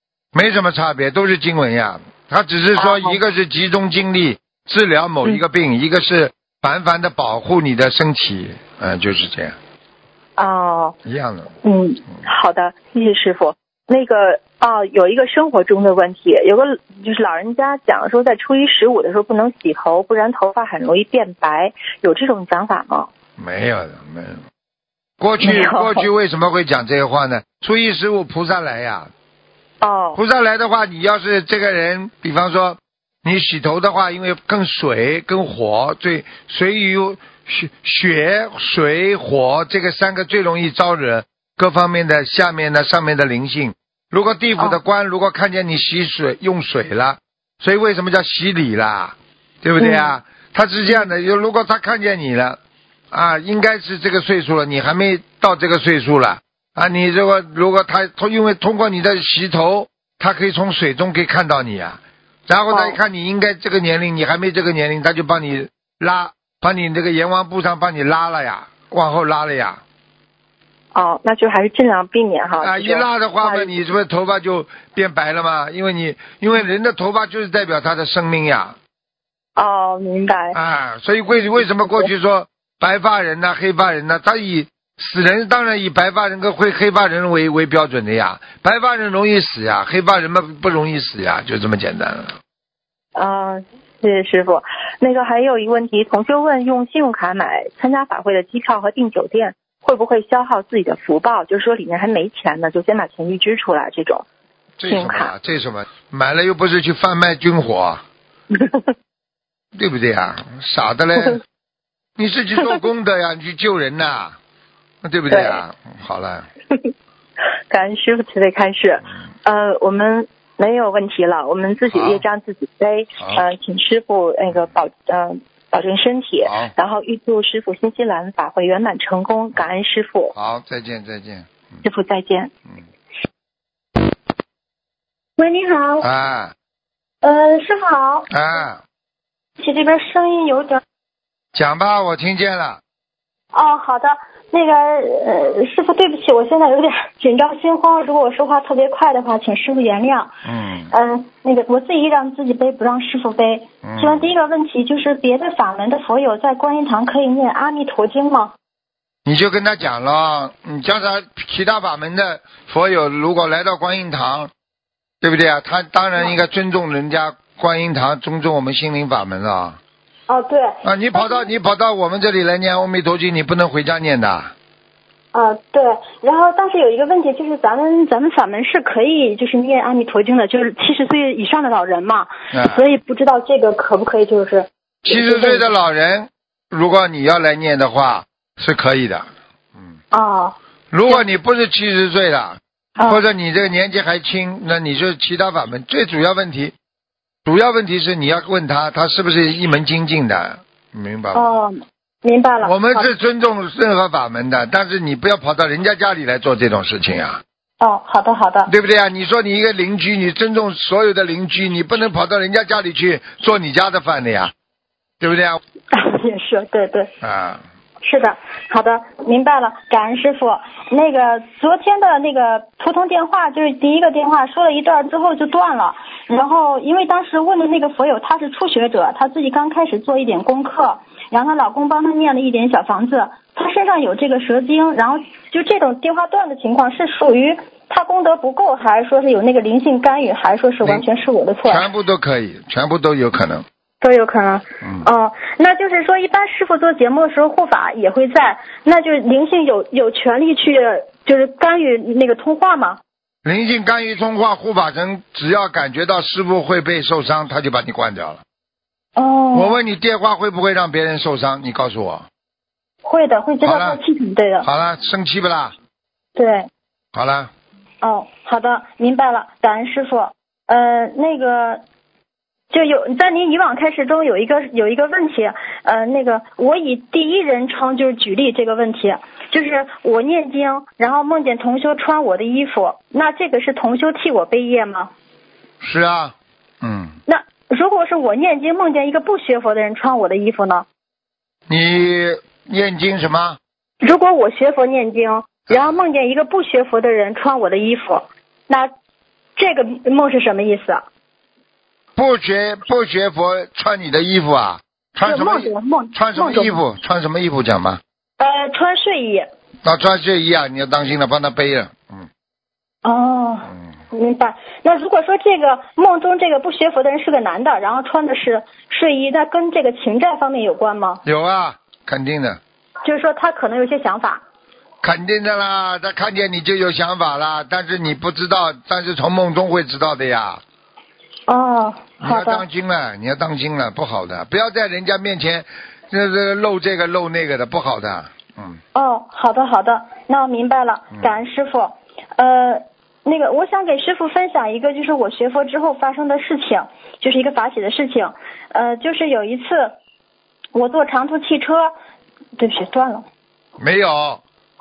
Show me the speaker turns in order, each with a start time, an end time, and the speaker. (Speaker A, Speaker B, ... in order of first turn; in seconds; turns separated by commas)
Speaker A: 0.3-9.6, Speaker B: 2.8-3.2, Speaker B: 10.4-11.0, Speaker A: 11.1-11.5, Speaker B: 11.6-23.1, Speaker A: 23.4-24.4, Speaker A: 25.2-29.1, Speaker B: 25.4-26.1, Speaker B: 29.8-30.2, Speaker A: 30.2-52.6, Speaker B: 49.8-50.2, Speaker A: 53.1-69.8, Speaker B: 62.7-63.0, Speaker B: 70.9-73.8, Speaker A: 72.6-78.8, Speaker B: 79.6-80.6, Speaker A: 80.5-92.4, Speaker B: 81.8-82.1, Speaker B: 93.2-104.2, Speaker A: 104.8-108.0, Speaker B: 104.9-105.3, Speaker A: 109.8-111.4, Speaker A: 112.2-114.4, Speaker A: 115.0-116.5, Speaker B: 115.3-115.6, Speaker B: 117.7-130.3, Speaker A: 121.9-122.2, Speaker A: 126.4-126.7, Speaker A: 130.3-131.5, Speaker B: 131.8-132.5, Speaker C: 135.4-136.1, Speaker A: 136.0-136.5, Speaker C: 137.2-138.3, Speaker A: 138.3-138.8, Speaker C: 139.6-140.8, Speaker A: 141.5-142.8, Speaker C: 143.5-150.4, Speaker A: 150.5-150.9, Speaker C: 150.9-158.5, Speaker A: 153.8-154.3, Speaker A: 159.3-164.5, Speaker A: 165.2-169.8, Speaker C: 170.3-171.5, Speaker A: 170.8-174.5, Speaker C: 175.3-185.7, Speaker A: 182.5-182.8, Speaker A: 185.1-190.0, Speaker C: 190.1-190.6, Speaker A: 190.9-196.7, Speaker A: 197.5-201.5, Speaker C: 201.3-203.1, Speaker A: 202.6-207.4, Speaker C: 207.8-208.7, Speaker A: 208.7-214.5, Speaker A: 215.2-215.6, Speaker C: 215.9-217.1, Speaker A: 217.2-217.6, Speaker C: 218.0-241.9, Speaker A: 241.7-243.7, Speaker C: 244.0-253.0, Speaker A: 244.8-245.1, Speaker A: 253.4-258.4, Speaker C: 259.2-259.8, Speaker A: 259.5-262.3, Speaker C: 263.1-264.7, Speaker A: 263.6-264.0, Speaker A: 264.6-265.7, Speaker C: 266.4-266.7, Speaker A: 267.1-267.5, Speaker C: 268.0-271.8, Speaker C: 272.7-285.1, Speaker A: 285.8-287.2, Speaker C: 287.3-290.9, Speaker A: 291.7-293.6, Speaker C: 294.0-298.9, Speaker A: 295.7-296.0, Speaker C: 299.6-301.1, Speaker A: 302.2-308.0, Speaker C: 305.2-306.8, Speaker C: 308.4-309.5, Speaker A: 309.8-312.3, Speaker C: 313.0-321.2, Speaker A: 321.2-322.6, Speaker C: 323.0-324.4, Speaker A: 325.0-330.6, Speaker C: 331.5-332.6, Speaker A: 332.2-338.8, Speaker C: 338.9-349.9, Speaker A: 341.1-341.4, Speaker C: 350.7-351.9, Speaker C: 352.6-353.2, Speaker A: 353.8-354.4